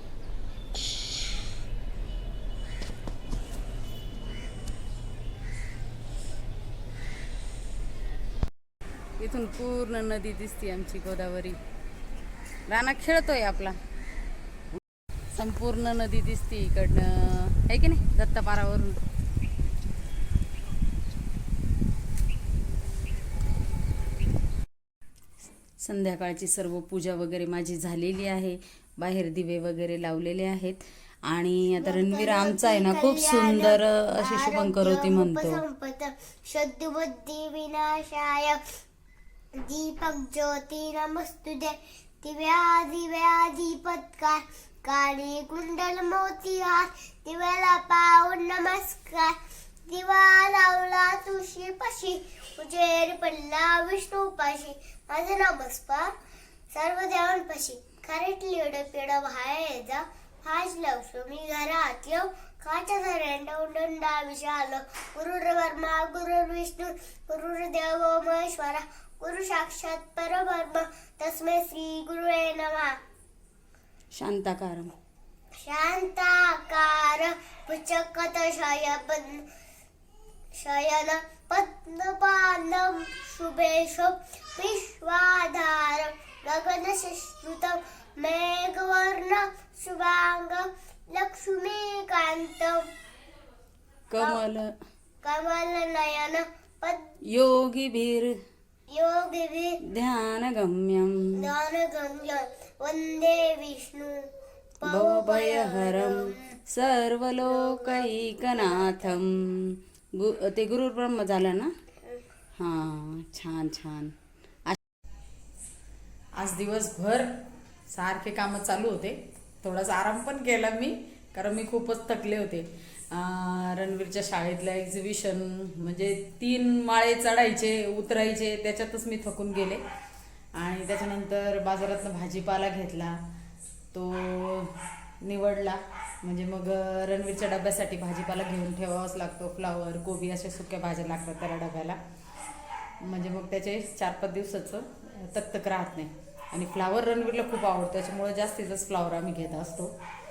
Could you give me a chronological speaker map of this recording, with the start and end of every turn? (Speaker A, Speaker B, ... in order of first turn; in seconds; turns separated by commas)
Speaker A: 9.2-11.6, Speaker A: 12.7-13.8, Speaker A: 15.3-19.0, Speaker A: 25.8-35.6, Speaker B: 31.8-38.6, Speaker B: 39.6-56.1, Speaker B: 56.7-73.0, Speaker A: 74.1-74.9, Speaker B: 75.6-79.5, Speaker B: 80.6-92.9, Speaker A: 94.1-94.7, Speaker B: 94.2-94.4, Speaker B: 95.2-97.1, Speaker A: 97.3-98.4, Speaker B: 98.9-99.8, Speaker A: 99.9-101.5, Speaker B: 101.4-104.3, Speaker B: 104.8-106.4, Speaker A: 104.8-111.7, Speaker B: 107.5-109.1, Speaker A: 112.6-114.1, Speaker A: 116.4-117.3, Speaker A: 117.9-129.8, Speaker A: 130.6-133.2, Speaker A: 133.9-142.0, Speaker A: 143.0-149.9